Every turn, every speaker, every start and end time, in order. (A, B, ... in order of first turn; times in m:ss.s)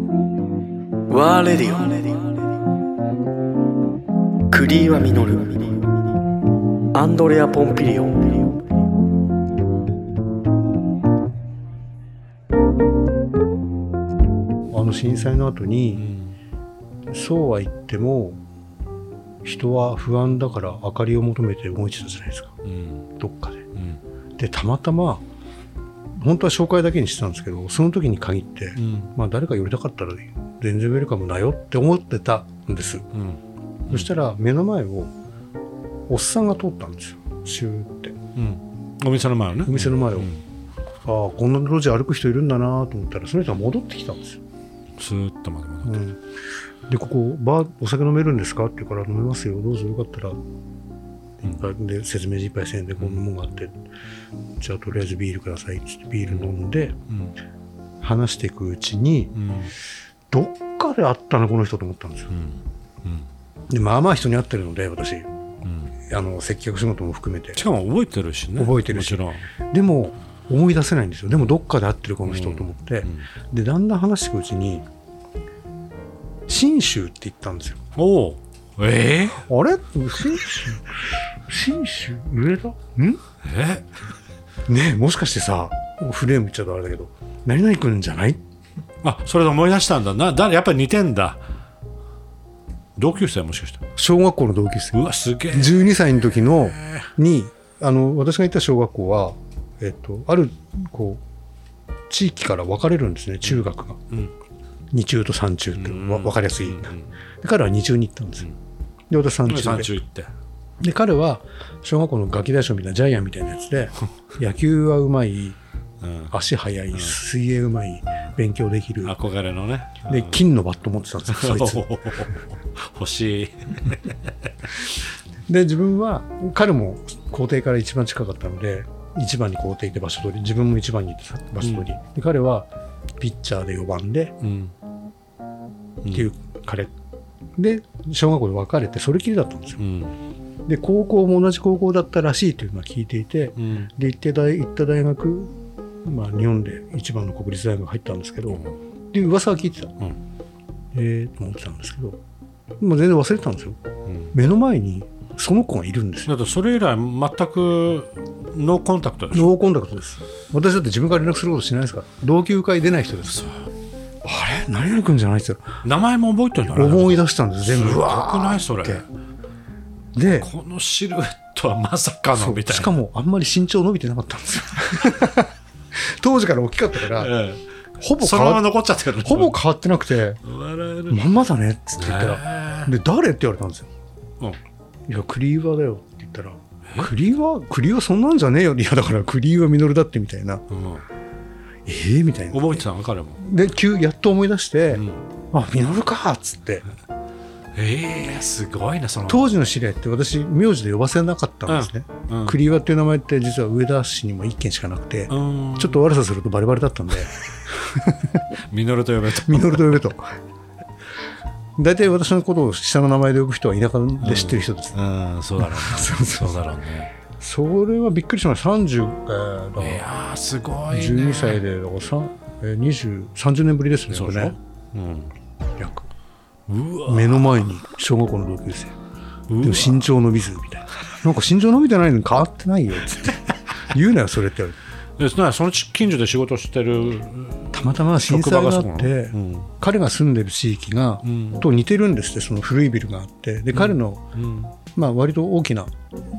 0:01.1-0:02.3 A
0:04.5-0:05.8 A
0:06.9-0:08.6 A
0:14.7-0:16.0 B
0:16.0-0:16.4 C
0:17.1-0:18.4 B
0:19.4-0:22.6 B
0:22.6-0:23.0 C
0:23.2-0:23.6 B
0:23.7-0:24.0 C
0:24.4-0:25.2 B
0:26.2-0:33.0 B
0:28.8-0:29.1 C
0:33.1-0:34.1 C
0:33.9-0:35.1 B
0:36.1-0:38.2 B
0:38.4-0:40.4 C
0:39.6-0:40.3 B
0:41.0-0:44.4 B
0:45.0-0:46.0 C
0:45.8-0:46.2 B
0:46.9-0:50.4 B
0:51.4-0:53.8 B
0:54.6-0:57.0 B
0:57.1-0:57.3 C
0:58.0-0:59.4 B
0:59.3-0:59.7 C
1:00.3-1:02.4 B
1:02.3-1:03.3 C
1:03.7-1:05.3 B
1:05.6-1:05.9 C
1:06.1-1:07.6 B
1:07.5-1:09.4 C
1:08.6-1:14.8 B
1:12.2-1:13.3 C
1:16.5-1:17.8 B
1:18.0-1:19.4 C
1:19.4-1:23.2 B
1:23.4-1:23.9 C
1:24.7-1:28.4 B
1:29.0-1:31.4 C
1:33.0-1:33.8 C
1:34.0-1:41.2 B
1:34.9-1:37.1 C
1:42.1-1:44.0 B
1:43.4-1:44.3 C
1:44.9-1:48.5 B
1:45.8-1:47.1 C
1:49.1-1:49.9 B
1:49.4-1:50.3 C
1:50.8-1:55.6 B
1:56.0-1:56.3 C
1:56.3-1:59.1 B
1:56.9-1:57.2 C
1:59.0-2:00.4 C
2:00.0-2:01.9 B
2:01.3-2:05.0 C
2:05.5-2:14.4 B
2:11.6-2:11.9 C
2:14.4-2:14.7 C
2:16.1-2:16.9 B
2:17.6-2:19.9 B
2:19.8-2:20.2 C
2:20.7-2:29.9 B
2:23.6-2:23.9 C
2:30.9-2:32.2 B
2:32.8-2:33.8 B
2:34.3-2:36.3 B
2:36.3-2:39.5 C
2:39.3-2:43.4 B
2:43.2-2:43.6 C
2:44.2-2:45.6 B
2:45.8-2:49.0 C
2:46.7-2:49.0 B
2:50.1-2:50.5 B
2:50.2-2:52.9 C
2:52.3-2:55.5 B
2:56.2-2:57.3 B
2:57.0-2:57.6 C
2:58.0-2:58.7 B
2:58.2-2:59.6 C
2:59.2-3:00.4 B
3:00.4-3:01.2 C
3:01.1-3:03.9 B
3:02.0-3:02.9 C
3:05.1-3:10.6 B
3:10.7-3:11.0 C
3:11.8-3:12.8 B
3:12.5-3:13.4 C
3:13.4-3:16.8 B
3:14.9-3:15.2 C
3:17.7-3:19.6 C
3:19.2-3:28.4 B
3:21.7-3:22.6 C
3:25.3-3:26.0 C
3:28.7-3:30.1 C
3:29.4-3:30.3 B
3:31.8-3:35.0 B
3:34.2-3:37.1 C
3:35.6-3:36.6 B
3:37.3-3:40.1 B
3:39.8-3:41.6 C
3:40.9-3:44.5 B
3:44.1-3:45.3 C
3:45.8-3:46.0 B
3:46.7-3:47.7 C
3:47.0-3:48.9 B
3:49.5-3:50.1 C
3:49.6-3:54.8 B
3:55.2-3:59.7 C
3:57.7-4:04.2 B
4:01.2-4:01.6 C
4:03.7-4:04.8 C
4:04.9-4:05.9 B